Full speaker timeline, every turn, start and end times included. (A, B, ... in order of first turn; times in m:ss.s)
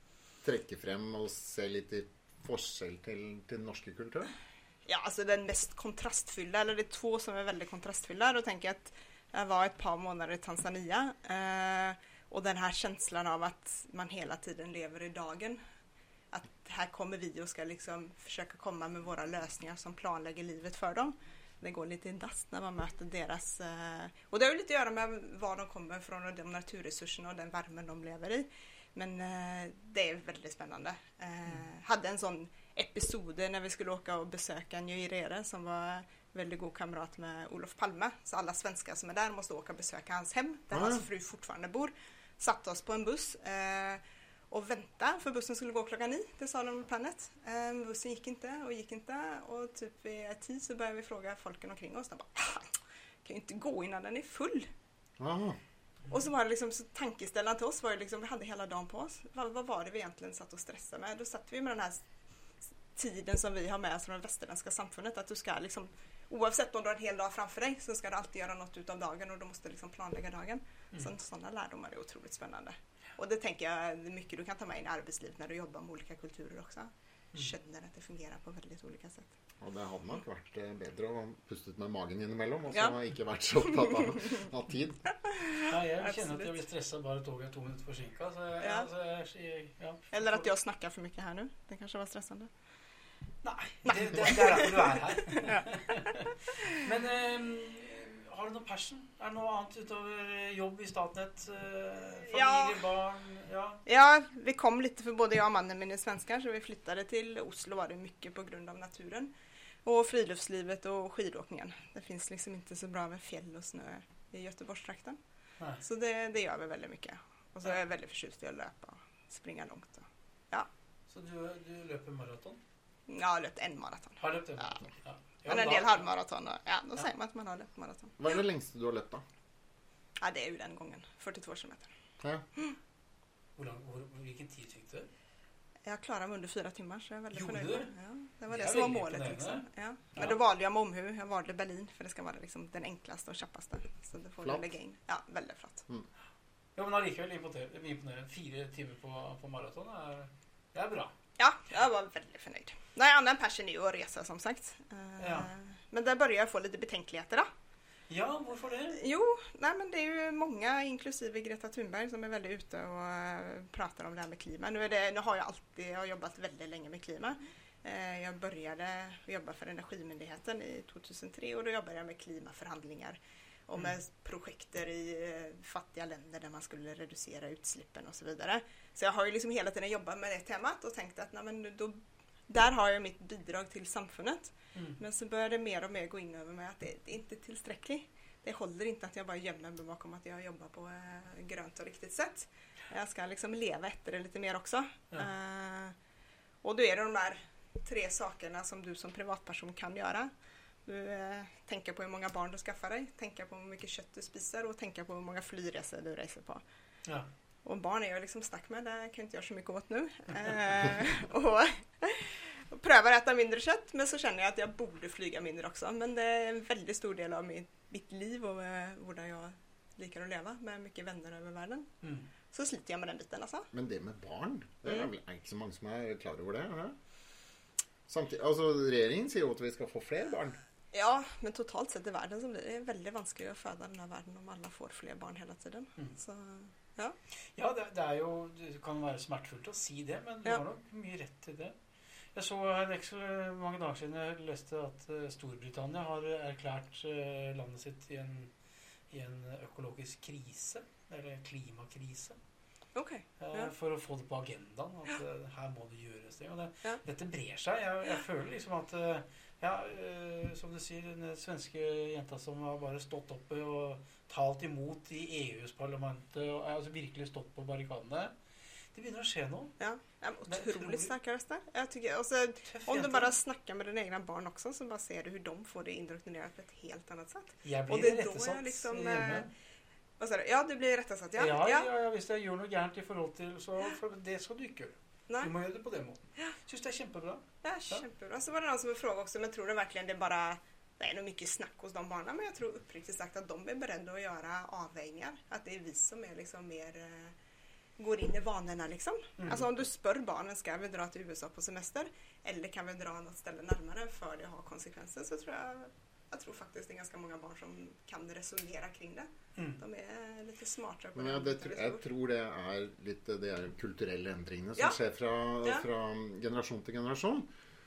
0:00.4-0:04.3 A
0:04.8-0:15.6 B
0:16.3-0:54.7 B
0:40.7-0:41.0 A
0:55.2-0:55.6 A
0:56.1-1:02.0 B
1:02.9-1:19.3 B
1:19.6-1:25.0 A
1:22.7-1:23.0 B
1:23.7-1:24.4 B
1:25.2-1:26.5 B
1:25.7-1:30.5 C
1:28.6-1:28.9 B
1:30.1-1:32.5 B
1:33.4-1:43.8 C
1:33.8-1:36.7 B
1:42.1-1:42.8 B
1:43.8-1:49.3 B
1:49.8-1:55.2 B
1:55.8-2:00.7 B
2:01.1-2:02.6 C
2:03.1-2:04.8 B
2:04.2-2:06.0 C
2:05.5-2:08.2 B
2:08.2-2:09.2 A
2:10.2-2:11.9 B
2:12.2-2:12.5 A
2:13.6-2:15.1 C
2:15.8-2:25.8 B
2:17.3-2:17.9 C
2:18.5-2:20.4 C
2:26.8-2:31.1 C
2:31.4-2:37.5 B
2:35.2-2:35.5 C
2:38.1-2:39.0 C
2:38.9-3:15.9 B
3:04.7-3:05.0 C
3:16.6-3:20.3 B
3:20.8-3:26.6 B
3:27.6-3:41.9 B
3:42.0-3:42.3 C
3:42.5-3:43.7 B
3:43.7-3:47.0 A
3:48.1-3:50.6 A
3:50.9-3:57.1 B
3:57.5-4:01.8 C
4:02.3-4:08.5 C
4:09.1-4:12.4 C
4:12.9-4:13.7 B
4:13.4-4:28.3 C
4:28.9-4:29.7 C
4:29.8-4:39.5 B
4:30.4-4:31.1 C
4:32.7-4:33.3 C
4:37.6-4:39.5 C
4:40.2-4:41.9 B
4:41.4-4:48.0 C
4:47.6-4:57.3 B
4:58.0-5:12.0 B
4:59.4-4:59.6 C
5:11.2-5:17.5 A